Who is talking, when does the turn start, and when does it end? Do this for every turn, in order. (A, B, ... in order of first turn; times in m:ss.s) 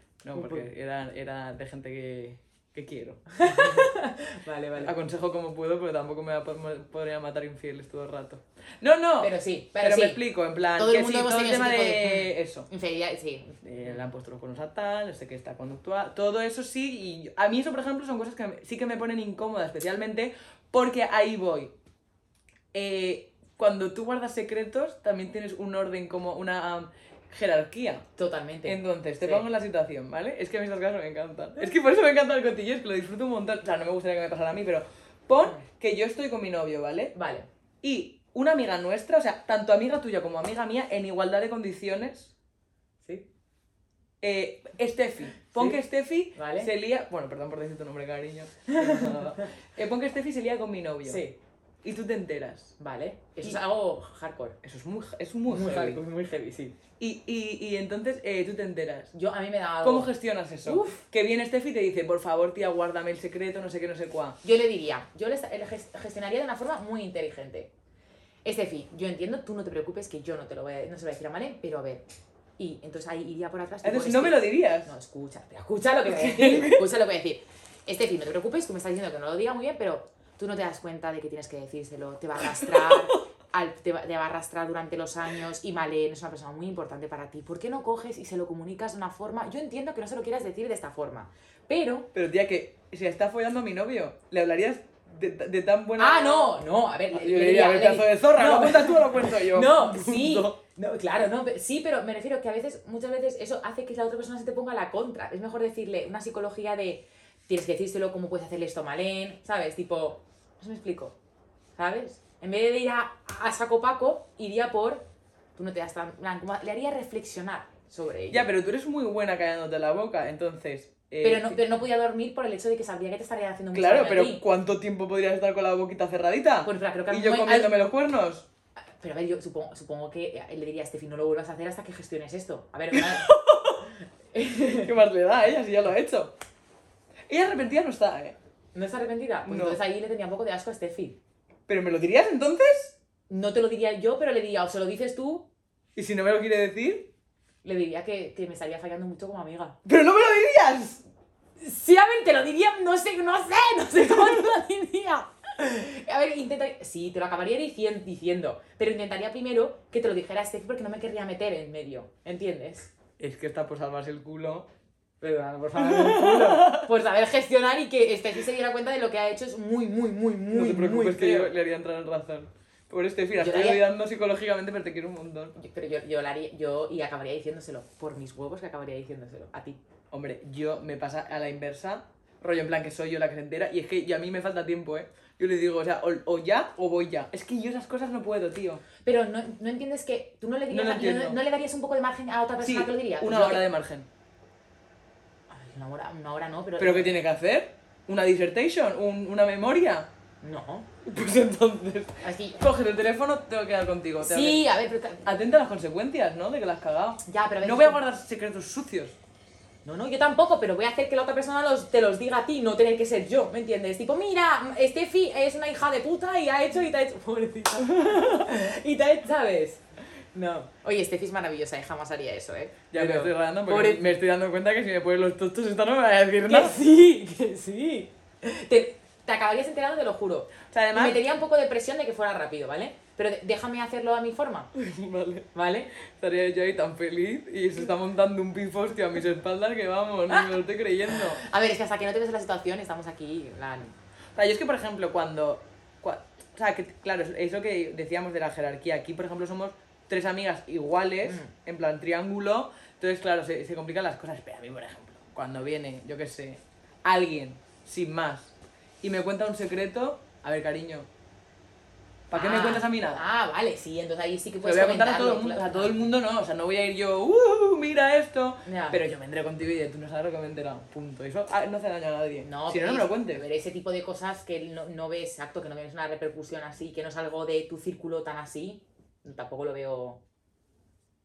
0:00.2-0:03.9 A
0:00.3-0:00.6 B
0:03.4-0:04.9 B
0:04.8-0:12.7 A
0:09.2-0:10.2 B
0:10.7-0:14.0 B
0:13.6-0:21.7 A
0:22.7-0:28.0 A
0:28.2-0:29.4 B
0:28.6-0:37.1 A
0:37.1-0:37.4 B
0:37.8-0:42.3 A
0:44.2-0:51.2 A
0:45.5-0:45.8 B
0:46.3-0:46.7 B
0:48.7-0:49.5 B
0:51.0-0:51.3 B
0:51.8-0:52.7 A
0:52.8-0:54.6 B
0:54.6-0:56.0 A
0:55.5-0:56.8 B
0:57.0-0:59.1 A
0:59.1-1:00.1 B
0:59.8-1:04.4 A
1:00.6-1:01.0 B
1:04.4-1:07.7 B
1:08.4-1:12.0 B
1:12.6-1:32.1 B
1:13.8-1:14.9 A
1:16.1-1:16.8 A
1:32.1-1:40.6 A
1:36.0-1:51.1 B
1:51.8-1:55.0 B
1:55.6-1:58.5 B
1:58.3-2:01.6 A
2:01.2-2:04.4 B
2:03.7-2:08.5 A
2:06.6-2:07.7 B
2:09.0-2:13.3 B
2:12.9-2:13.8 A
2:14.3-2:14.9 B
2:14.8-2:16.3 A
2:17.3-2:18.4 A
2:18.7-2:21.2 B
2:19.4-2:19.8 A
2:21.7-2:22.9 A
2:23.3-2:25.5 B
2:26.0-2:27.1 A
2:27.6-2:29.8 B
2:29.8-2:31.0 A
2:31.6-2:42.9 B
2:43.2-2:44.7 A
2:45.2-2:51.5 B
2:45.8-2:46.9 A
2:50.5-2:55.5 A
2:53.4-2:53.8 B
2:55.6-2:59.8 B
3:00.1-3:08.8 A
3:09.0-3:13.6 B
3:10.7-3:11.4 A
3:12.6-3:14.1 A
3:15.5-3:17.1 B
3:16.8-3:20.1 A
3:20.4-3:20.9 B
3:21.0-3:24.6 A
3:22.2-3:22.6 B
3:24.2-3:25.2 B
3:25.2-3:29.2 A
3:27.2-3:28.0 B
3:29.8-3:39.8 B
3:37.9-3:38.5 A
3:40.3-3:44.0 B
3:42.9-3:46.8 A
3:46.4-3:54.7 B
3:50.7-3:51.2 A
3:54.7-3:55.5 A
3:55.5-3:55.9 B
3:56.2-4:01.4 A
4:00.3-4:00.6 B
4:01.1-4:03.9 B
4:04.4-4:21.1 A
4:11.2-4:11.5 B
4:22.3-4:23.2 A
4:22.3-4:26.1 B
4:24.6-4:33.4 A
4:28.6-4:29.0 B
4:32.4-4:40.2 B